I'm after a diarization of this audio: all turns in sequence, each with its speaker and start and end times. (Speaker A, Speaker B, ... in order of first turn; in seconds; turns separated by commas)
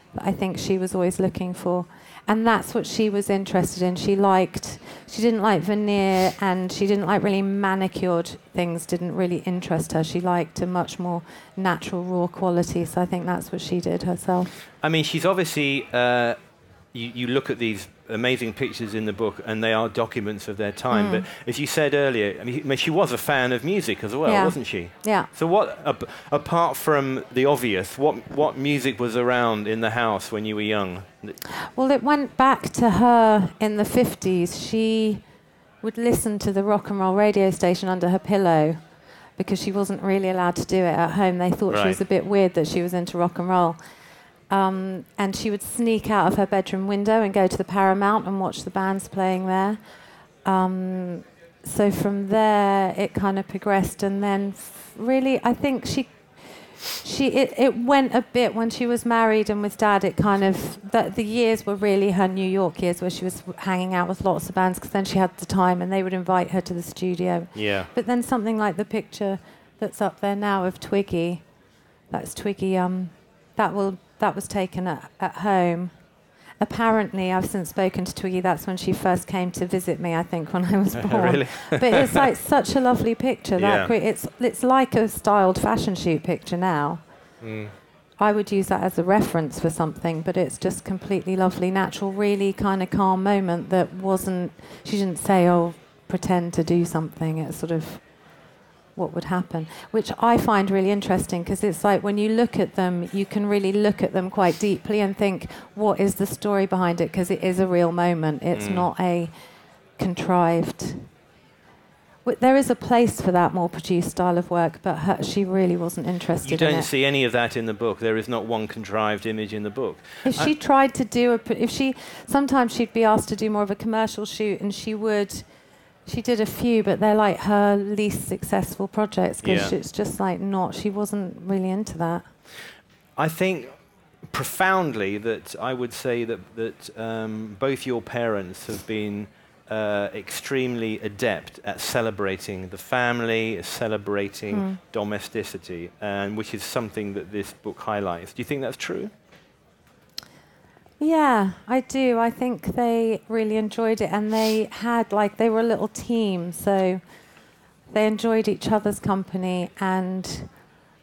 Speaker A: 0.1-14.5, Speaker B: 14.8-16.4, Speaker B: 16.9-31.4, Speaker A: 20.9-21.2, Speaker A: 24.3-25.3, Speaker A: 31.7-35.2, Speaker A: 35.8-38.8, Speaker A: 39.4-43.8, Speaker B: 41.7-42.0, Speaker A: 44.5-49.8, Speaker A: 50.5-56.1, Speaker A: 57.0-71.4, Speaker B: 67.5-67.9, Speaker A: 72.1-75.9, Speaker A: 76.6-87.0, Speaker B: 80.9-82.3, Speaker B: 83.6-83.9, Speaker B: 87.4-87.7, Speaker A: 88.2-98.0, Speaker A: 99.0-109.3, Speaker B: 108.5-108.9, Speaker A: 110.0-111.1, Speaker A: 112.2-116.9, Speaker B: 116.4-120.5, Speaker A: 120.2-125.5, Speaker A: 126.1-132.3, Speaker B: 129.4-129.7, Speaker B: 133.2-133.8, Speaker B: 134.3-149.1, Speaker A: 144.5-144.8, Speaker A: 151.0-157.0, Speaker A: 157.9-160.5